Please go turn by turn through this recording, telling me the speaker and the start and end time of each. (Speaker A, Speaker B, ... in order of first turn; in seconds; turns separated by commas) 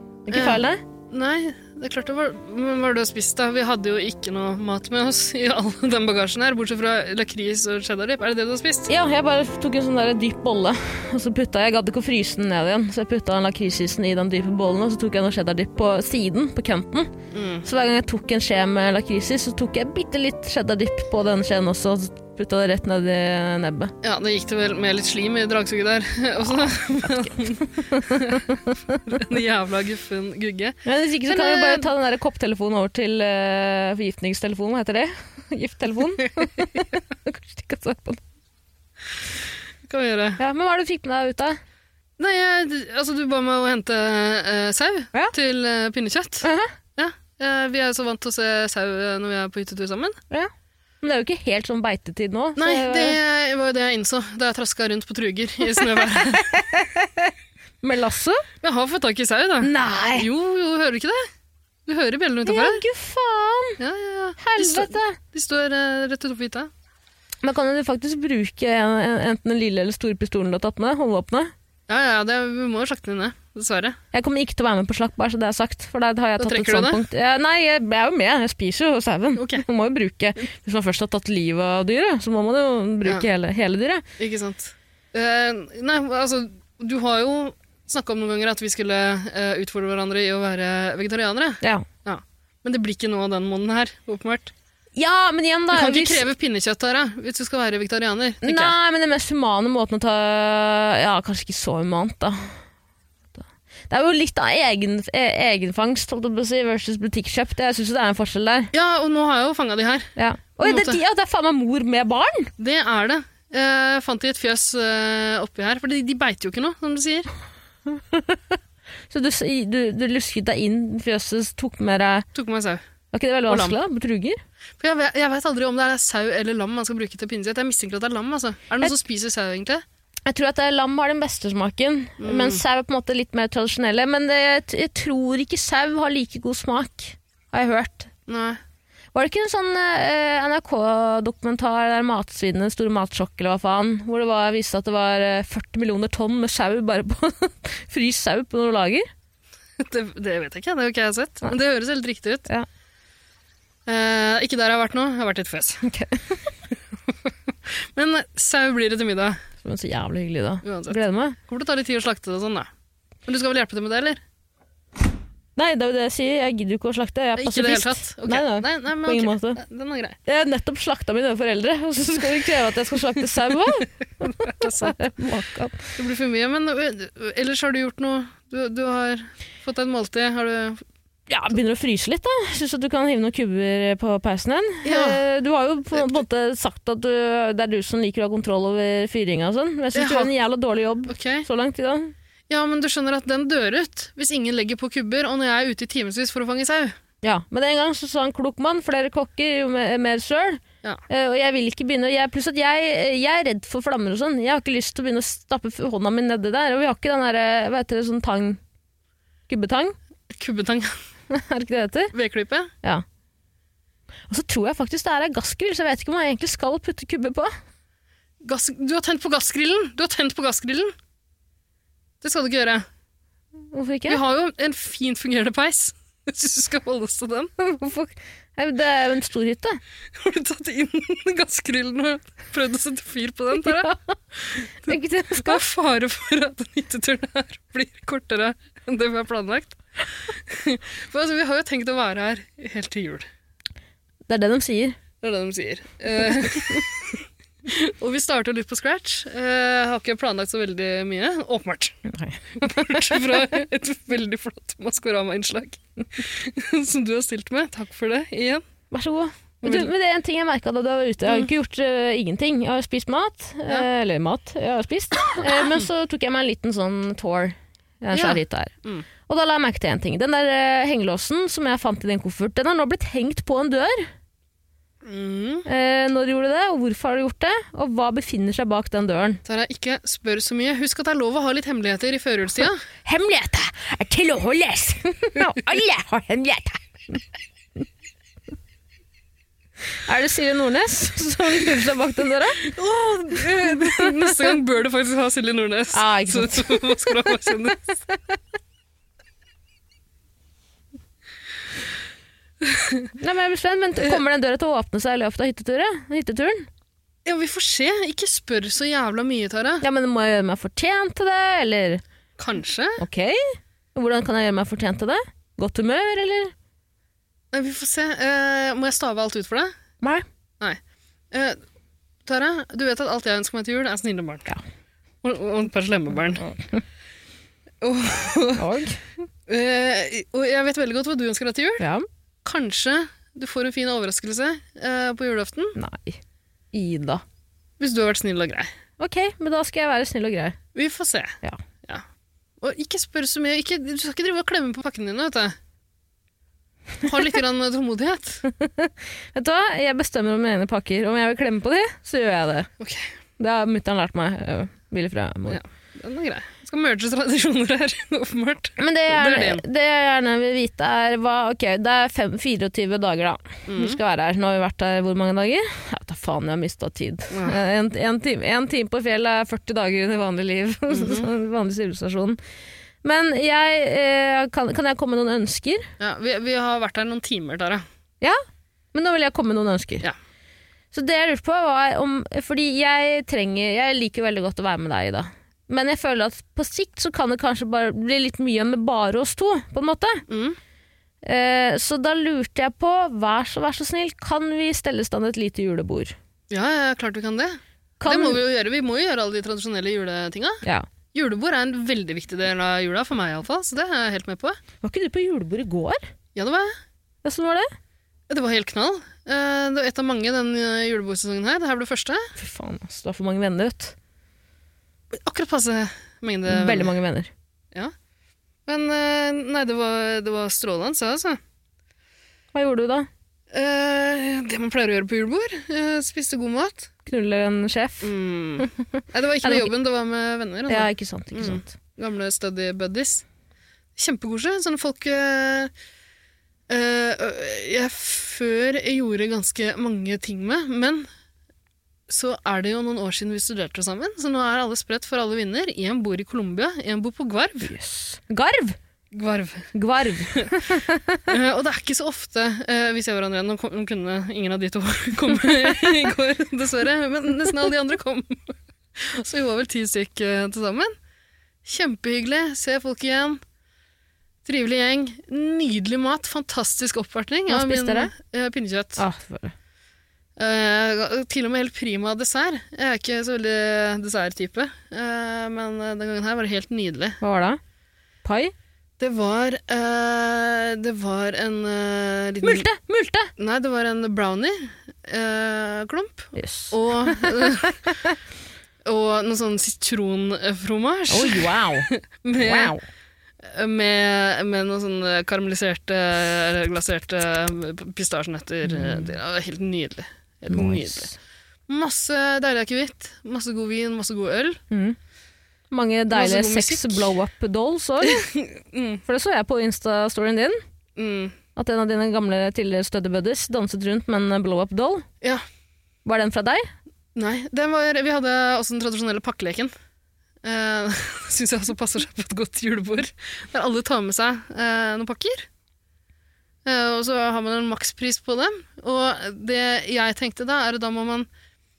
Speaker A: 0.3-0.8, Speaker B: 0.3-8.9, Speaker A: 8.9-17.1, Speaker B: 17.3-17.7, Speaker A: 17.6-23.9, Speaker B: 24.0-31.9, Speaker A: 26.6-29.0, Speaker A: 30.9-38.2, Speaker B: 39.8-40.4, Speaker A: 40.4-41.6, Speaker B: 42.2-50.2, Speaker A: 46.4-46.7, Speaker A: 51.0-53.2, Speaker B: 52.6-56.5, Speaker A: 55.8-58.4, Speaker B: 58.6-61.3, Speaker A: 59.6-60.3, Speaker B: 61.9-62.9, Speaker A: 62.5-63.8, Speaker B: 63.8-66.7, Speaker A: 64.4-65.2, Speaker A: 67.4-71.5, Speaker B: 71.9-74.0, Speaker A: 74.1-84.0, Speaker B: 76.4-77.0, Speaker B: 79.3-79.7, Speaker B: 84.2-94.5, Speaker A: 91.6-91.9, Speaker A: 95.0-96.3, Speaker B: 95.7-98.8, Speaker A: 98.4-102.5, Speaker A: 103.4-108.7, Speaker B: 108.7-111.0, Speaker A: 110.2-112.5, Speaker B: 112.6-117.3, Speaker A: 117.9-118.6, Speaker A: 119.1-122.3, Speaker B: 122.3-122.8, Speaker A: 123.1-124.4, Speaker B: 123.5-123.8, Speaker B: 124.8-129.8, Speaker A: 130.3-138.1, Speaker B: 132.2-132.6, Speaker B: 138.3-138.6, Speaker A: 139.1-149.1, Speaker B: 149.8-152.5, Speaker B: 153.9-155.8, Speaker A: 155.8-156.4, Speaker B: 157.3-159.4, Speaker A: 159.6-161.4, Speaker B: 160.6-162.7, Speaker B: 163.3-164.2, Speaker A: 165.6-169.6, Speaker B: 167.4-170.2, Speaker A: 170.3-175.8, Speaker B: 174.4-175.0, Speaker B: 176.0-180.8, Speaker A: 181.3-192.1, Speaker B: 184.8-185.2, Speaker B: 185.9-186.2, Speaker B: 189.9-190.3, Speaker B: 191.1-191.5, Speaker B: 192.5-196.9, Speaker A: 197.2-208.6, Speaker A: 209.5-210.0, Speaker B: 210.3-211.0, Speaker A: 211.3-212.1, Speaker B: 212.1-212.7, Speaker A: 214.3-217.5, Speaker B: 218.4-220.9, Speaker B: 222.2-222.8, Speaker A: 223.7-224.2, Speaker B: 224.1-227.5, Speaker A: 227.6-229.8, Speaker B: 230.1-233.9, Speaker B: 234.5-243.3, Speaker A: 234.9-235.6, Speaker A: 244.3-245.0, Speaker B: 245.2-252.0, Speaker A: 252.1-253.3, Speaker B: 252.6-258.6, Speaker A: 258.9-268.7, Speaker B: 259.6-259.9, Speaker B: 261.3-261.5, Speaker B: 265.4-265.8, Speaker B: 268.1-269.1, Speaker A: 269.3-274.1, Speaker B: 275.0-275.7, Speaker A: 275.7-279.4, Speaker B: 279.4-282.8, Speaker A: 283.0-287.2, Speaker A: 290.1-292.6, Speaker B: 292.6-297.8, Speaker A: 295.9-297.3, Speaker B: 302.6-303.1, Speaker A: 303.2-306.7, Speaker B: 307.2-309.8, Speaker A: 309.8-312.0, Speaker B: 312.4-313.0, Speaker A: 313.0-316.5, Speaker B: 317.5-319.7, Speaker B: 321.3-321.6, Speaker B: 322.2-324.5, Speaker B: 325.2-326.5, Speaker A: 326.4-326.8, Speaker B: 327.8-328.7, Speaker A: 328.6-329.1, Speaker B: 329.5-331.9, Speaker A: 331.8-332.1, Speaker B: 332.4-335.8, Speaker A: 335.8-336.2, Speaker A: 336.7-337.2, Speaker B: 337.8-338.7, Speaker A: 339.0-340.6, Speaker B: 340.8-342.0, Speaker B: 342.6-345.6, Speaker B: 347.0-348.4, Speaker A: 348.5-352.7, Speaker B: 352.8-353.1, Speaker A: 353.4-355.6, Speaker B: 355.5-359.6, Speaker A: 358.8-372.4, Speaker B: 363.7-364.0, Speaker B: 367.3-367.6, Speaker B: 370.9-371.3, Speaker A: 373.0-375.9, Speaker B: 376.0-377.9, Speaker A: 378.9-380.1, Speaker A: 380.9-390.2, Speaker B: 390.3-390.6, Speaker A: 391.2-396.1, Speaker B: 396.5-400.6, Speaker A: 398.0-398.4, Speaker B: 401.1-404.6, Speaker A: 404.8-406.1, Speaker B: 406.4-406.8, Speaker A: 407.2-407.7, Speaker B: 408.3-412.3, Speaker A: 412.4-413.9, Speaker B: 415.1-416.9, Speaker A: 416.5-417.3, Speaker B: 418.7-421.4, Speaker A: 422.5-423.1, Speaker B: 423.5-426.9, Speaker A: 427.1-429.7, Speaker B: 428.0-433.2, Speaker A: 430.7-431.7, Speaker B: 434.0-435.7, Speaker B: 436.7-441.1, Speaker B: 442.1-447.7, Speaker A: 447.6-448.8, Speaker B: 449.1-449.7, Speaker A: 449.7-451.2, Speaker B: 451.3-460.9, Speaker B: 461.6-463.4, Speaker B: 464.4-469.0, Speaker A: 467.5-468.1, Speaker A: 469.0-469.5, Speaker B: 470.4-477.2, Speaker A: 477.2-477.6, Speaker A: 478.2-478.5, Speaker B: 479.0-482.7, Speaker A: 482.4-483.3, Speaker B: 483.4-487.8, Speaker A: 486.4-488.1, Speaker B: 488.9-492.8, Speaker A: 491.1-492.8, Speaker B: 493.4-501.1, Speaker A: 498.6-499.1, Speaker A: 500.5-501.2, Speaker B: 501.7-504.6, Speaker A: 504.7-505.0, Speaker A: 505.7-508.3, Speaker B: 506.1-507.2, Speaker B: 508.0-509.0, Speaker A: 509.1-510.6, Speaker B: 511.0-511.4, Speaker A: 511.6-515.1, Speaker A: 516.0-516.7, Speaker B: 517.1-519.7, Speaker B: 520.4-525.5, Speaker B: 526.6-531.3